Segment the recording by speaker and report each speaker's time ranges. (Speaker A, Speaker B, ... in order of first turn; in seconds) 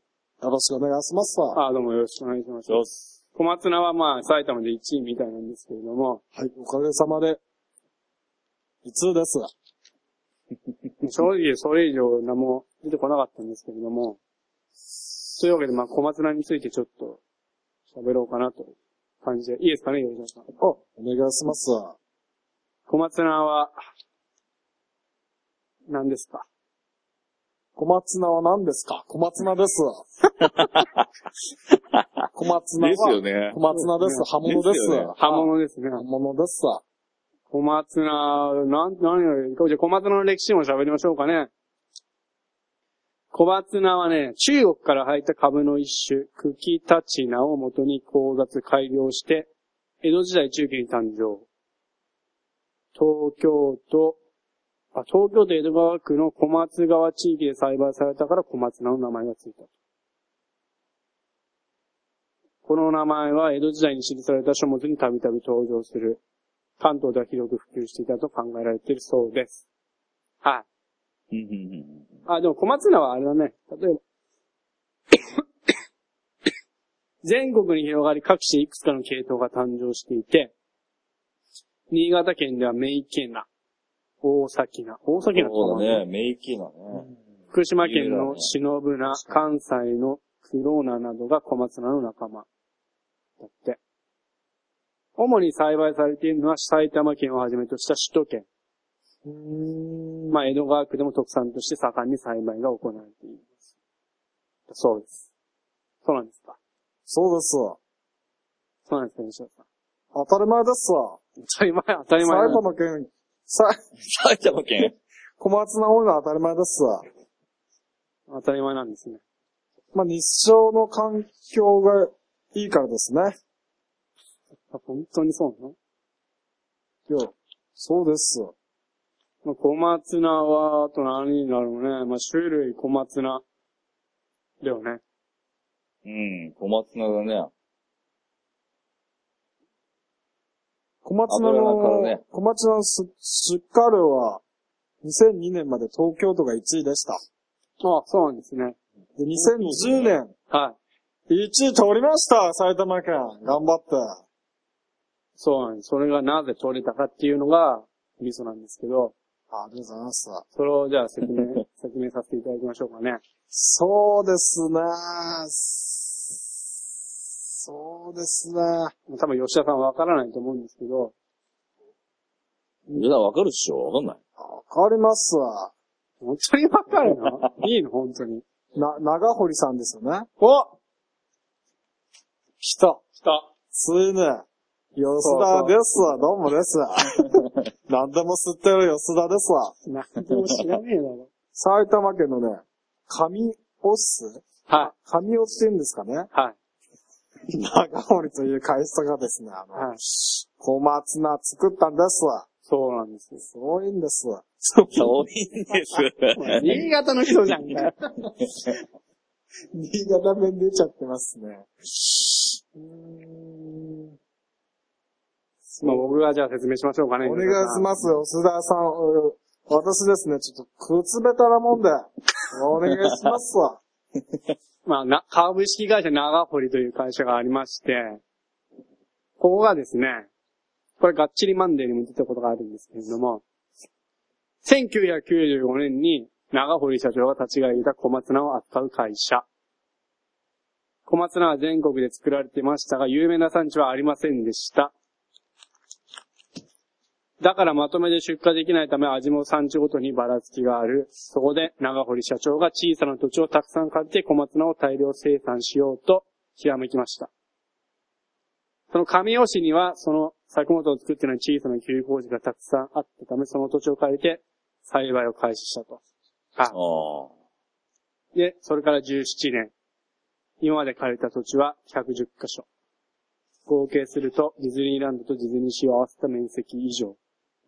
Speaker A: 0.4-1.6, 6.3-7.4, 8.8-9.5, 20.6-21.9, 27.8-30.1, 32.3-36.8, 99.2-100.4, 107.1-107.8, 110.1-111.2, 112.2-113.8, 115.4-117.0, 119.9-123.3, 127.1-128.5, 141.0-144.4, 145.0-147.2, 149.2-150.3, 151.3-154.2, 159.5-160.4, 163.5-166.4, 167.4-168.9, 174.4-175.7, 178.7-180.3, 182.6-183.0, 183.7-189.7, 191.5-196.3, 197.5-202.4, 203.4-205.1, 209.7-214.1, 215.7-216.1, 217.2-223.8
Speaker B: 1.5-6.2, 11.0-14.2, 15.3-17.2, 17.9-20.5, 22.9-23.7, 25.9-26.5, 33.7-34.2, 35.2-36.0, 37.5-41.5, 43.3-49.5, 50.0-51.5, 52.9-54.2, 54.9-59.7, 62.6-66.2, 66.8-69.6, 72.3-74.0, 77.2-80.5, 81.9-83.5, 84.2-86.0, 87.5-92.5, 93.4-93.8, 95.2-98.5, 100.3-103.5, 104.7-105.2, 106.0-106.6, 108.9-109.6, 111.4-112.6, 118.3-119.2, 124.7-125.8, 129.4-133.4, 134.6-135.0, 147.8-148.8, 150.5-150.8, 155.4-159.1, 160.5-163.2, 169.1-171.1, 176.2-178.4, 180.4-180.7, 183.2-183.5, 185.2-185.7, 189.8-191.3, 194.7-194.9, 202.7-203.4, 206.3-207.9, 215.8-217.9, 224.8-228.2, 229.4-230.3, 231.0-233.4, 234.6-239.4, 241.1-244.9, 247.4-257.3, 258.9-266.0, 268.3-269.7, 270.6-272.7, 273.7-277.2
Speaker C: 2.7-3.0, 32.8-33.6, 34.4-35.1, 71.3-72.2, 85.2-87.1, 87.8-88.5, 114.0-115.0, 136.0-137.5, 141.3-142.2, 149.6-150.1, 172.9-174.2, 177.1-177.5, 204.9-207.3, 222.9-223.2, 266.7-267.3